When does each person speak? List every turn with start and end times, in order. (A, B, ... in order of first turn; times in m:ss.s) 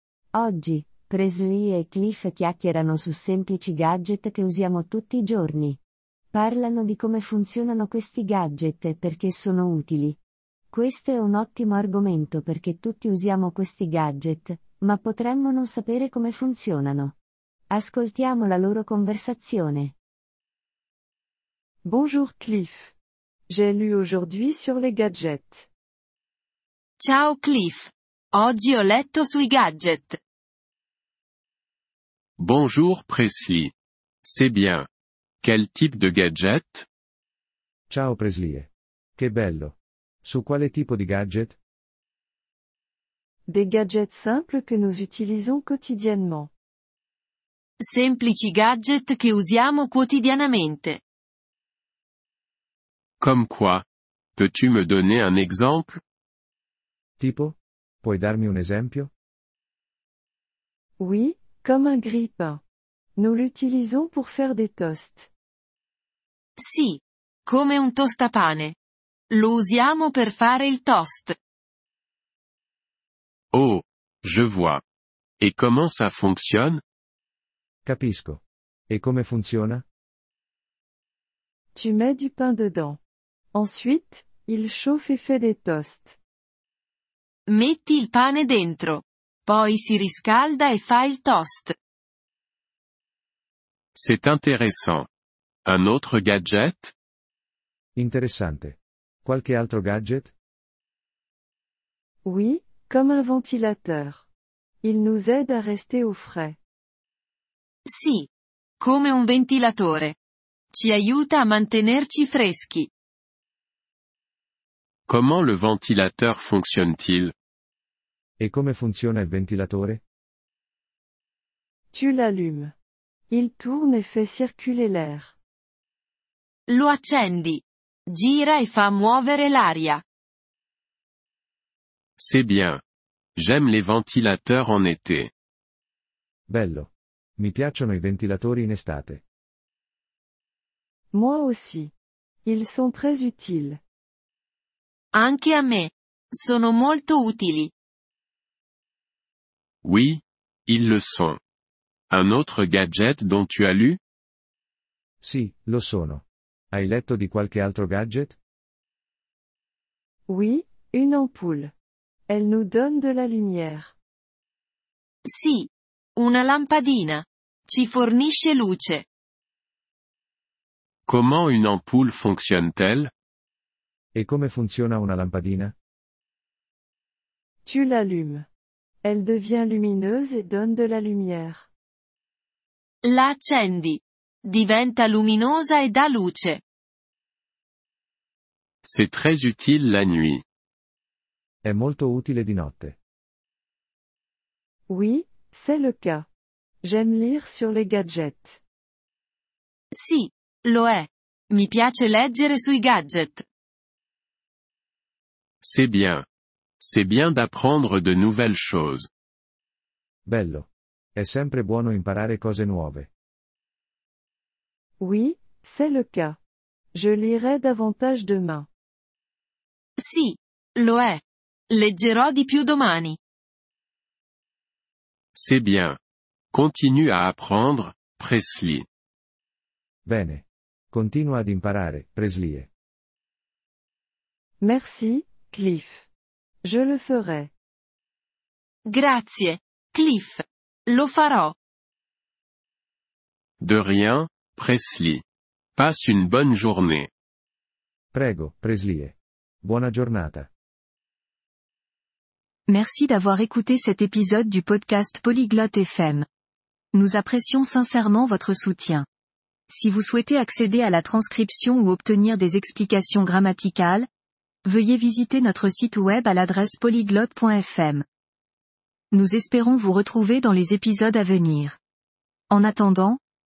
0:00.4-0:05.8 A
0:06.3-0:10.2 A
0:10.7-0:17.2 A
0:17.7-0:20.0 A
0:21.8-0:22.9 B
0:23.5-0:25.7 B
0:27.0-0:30.2 C
0:32.4-0:33.7 D
0:34.2-0:34.9 D
0:35.4-0:36.9 D
0:37.9-0:41.6 E
0:43.5-0:46.5 B
0:47.8-0:51.0 C
0:53.2-0:56.0 D
0:57.2-0:59.1 E
1:01.0-1:02.6 B
1:03.2-1:05.3 B
1:06.6-1:08.8 C
1:09.3-1:11.4 C
1:13.5-1:14.8 D
1:15.4-1:16.8 D
1:17.8-1:19.8 E
1:21.7-1:23.0 B
1:23.5-1:26.2 B
1:27.5-1:31.8 C
1:34.0-1:35.1 D
1:35.6-1:36.9 D
1:38.0-1:40.3 E
1:42.2-1:44.3 B
1:44.8-1:46.6 B
1:47.9-1:48.3 C
1:48.8-1:50.2 C
1:50.7-1:52.9 C
1:55.1-1:57.3 D
1:58.4-2:00.0 E
2:01.9-2:02.7 B
2:03.3-2:05.4 B
2:06.7-2:10.0 C
2:12.2-2:12.8 D
2:13.4-2:15.3 D
2:16.5-2:19.2 E
2:21.1-2:21.9 B
2:22.4-2:23.8 B
2:25.1-2:27.7 C
2:29.8-2:31.4 D
2:32.1-2:34.0 D
2:35.2-2:38.4 E
2:40.3-2:41.7 B
2:42.3-2:44.0 B
2:45.3-2:49.0 C
2:51.1-2:53.1 D
2:54.2-2:55.7 E
2:57.6-2:58.5 B
2:59.0-3:01.7 B
3:03.0-3:06.6 C
3:08.8-3:10.4 D
3:11.6-3:13.0 E
3:14.9-3:16.3 B
3:16.8-3:18.6 B
3:19.9-3:23.4 C
3:25.6-3:26.3 D
3:26.8-3:29.1 D
3:30.3-3:33.1 E
3:35.0-3:36.4 B
3:36.9-3:38.7 B
3:40.0-3:43.2 C
3:45.4-3:46.0 D
3:46.5-3:48.9 D
3:50.1-3:52.7 E
3:54.6-3:56.1 B
3:56.6-3:57.5 B
3:58.9-4:01.6 C
4:03.6-4:05.2 D
4:05.8-4:07.1 D
4:08.1-4:10.5 E
4:12.7-4:16.3 F
4:16.9-4:19.1 F
4:19.7-4:24.1 F
4:24.6-4:28.0 F
4:29.1-4:31.8 F
4:32.5-4:33.2 F